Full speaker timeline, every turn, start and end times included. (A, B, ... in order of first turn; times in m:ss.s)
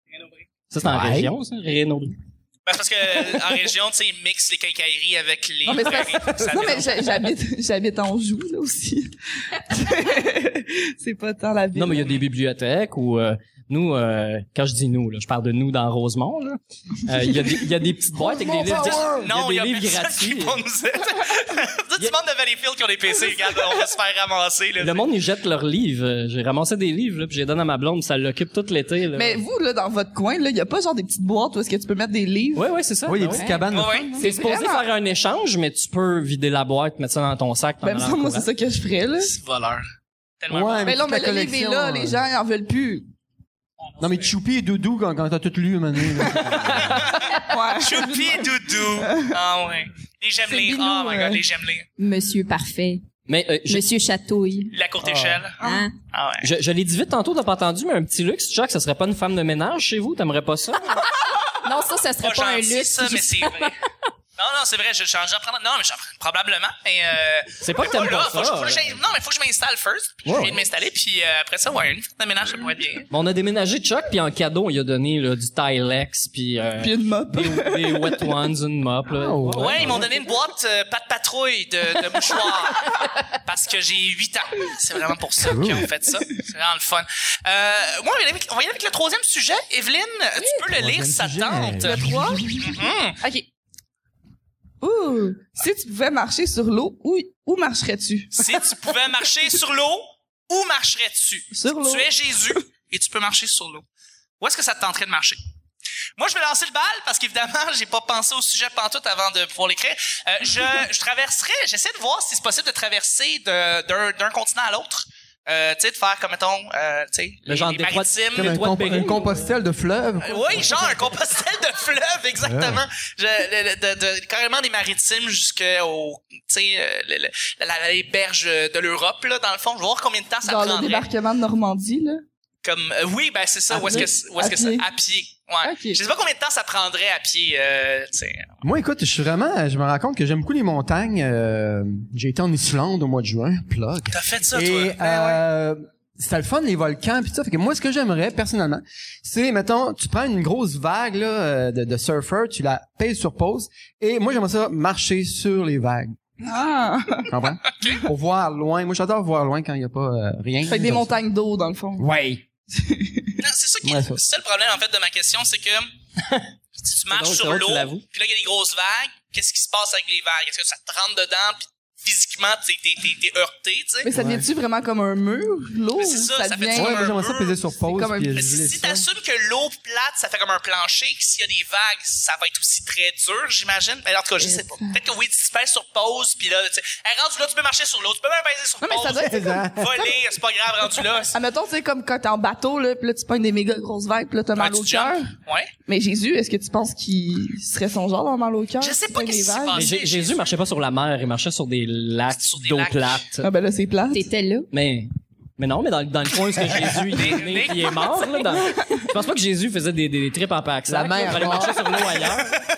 0:00.7-0:02.1 A
0:00.8-0:01.3 B
0:02.6-0:07.3 C
0:05.6-0:12.2 D
0:11.7-0:20.6 A
0:18.2-0:19.3 B
0:18.7-0:25.0 C
0:24.8-0:29.4 A
0:29.1-0:32.7 D
0:32.5-0:33.6 A
0:33.0-0:34.2 B
0:33.3-0:33.6 E
0:33.7-0:34.1 C
0:34.2-0:38.5 A
0:34.2-0:34.9 D
0:37.8-0:39.3 D
0:39.2-0:39.8 C
0:40.4-0:41.0 C
0:40.5-0:42.2 B
0:40.8-0:43.1 D
0:43.9-0:44.3 C
0:44.0-0:47.1 B
0:47.2-0:49.3 D
0:47.8-0:51.9 C
0:50.4-0:51.4 D
0:52.0-0:53.0 E
0:53.3-0:53.9 A
0:53.7-0:54.7 E
0:54.7-0:56.5 C
0:55.0-0:55.4 B
0:55.6-0:55.8 D
0:55.6-0:55.9 E
0:56.4-1:01.0 A
1:00.9-1:03.8 E
1:02.2-1:03.8 C
1:04.4-1:13.1 C
1:07.6-1:09.0 A
1:10.2-1:10.6 B
1:13.1-1:20.0 A
1:16.8-1:18.3 D
1:19.1-1:20.1 B
1:19.5-1:32.1 C
1:25.4-1:25.9 B
1:30.7-1:32.4 B
1:31.8-1:33.5 D
1:32.6-1:33.2 C
1:34.8-1:38.6 D
1:38.3-1:43.8 C
1:41.5-1:42.1 D
1:44.4-1:45.4 C
1:46.2-1:58.6 C
1:57.5-1:59.5 A
1:58.3-2:00.9 B
2:00.2-2:11.1 C
2:02.4-2:02.8 B
2:10.4-2:12.2 D
2:12.6-2:18.5 C
2:13.7-2:14.1 B
2:13.7-2:14.8 D
2:15.6-2:16.0 D
2:18.6-2:36.2 B
2:24.1-2:25.4 C
2:36.4-2:37.3 D
2:37.3-2:41.1 B
2:37.8-2:38.0 C
2:40.6-2:42.1 D
2:42.0-2:42.4 B
2:42.7-2:43.4 D
2:43.4-2:45.9 C
2:43.8-2:44.2 B
2:46.2-2:46.5 A
2:46.8-2:54.1 C
2:47.1-2:48.0 A
2:54.0-2:57.1 D
2:54.1-2:54.5 B
2:55.9-2:57.6 C
2:56.7-2:59.1 B
2:57.8-2:58.3 D
2:58.3-3:11.3 C
3:04.4-3:05.0 D
3:08.8-3:10.1 D
3:09.2-3:10.0 B
3:11.3-3:15.3 D
3:14.6-3:15.7 C
3:15.8-3:19.9 D
3:18.8-3:20.5 C
3:19.7-3:23.5 A
3:22.3-3:23.2 C
3:23.4-3:24.3 D
3:24.1-3:24.7 E
3:24.7-3:32.6 A
3:27.1-3:28.4 C
3:28.7-3:29.0 D
3:30.9-3:32.1 B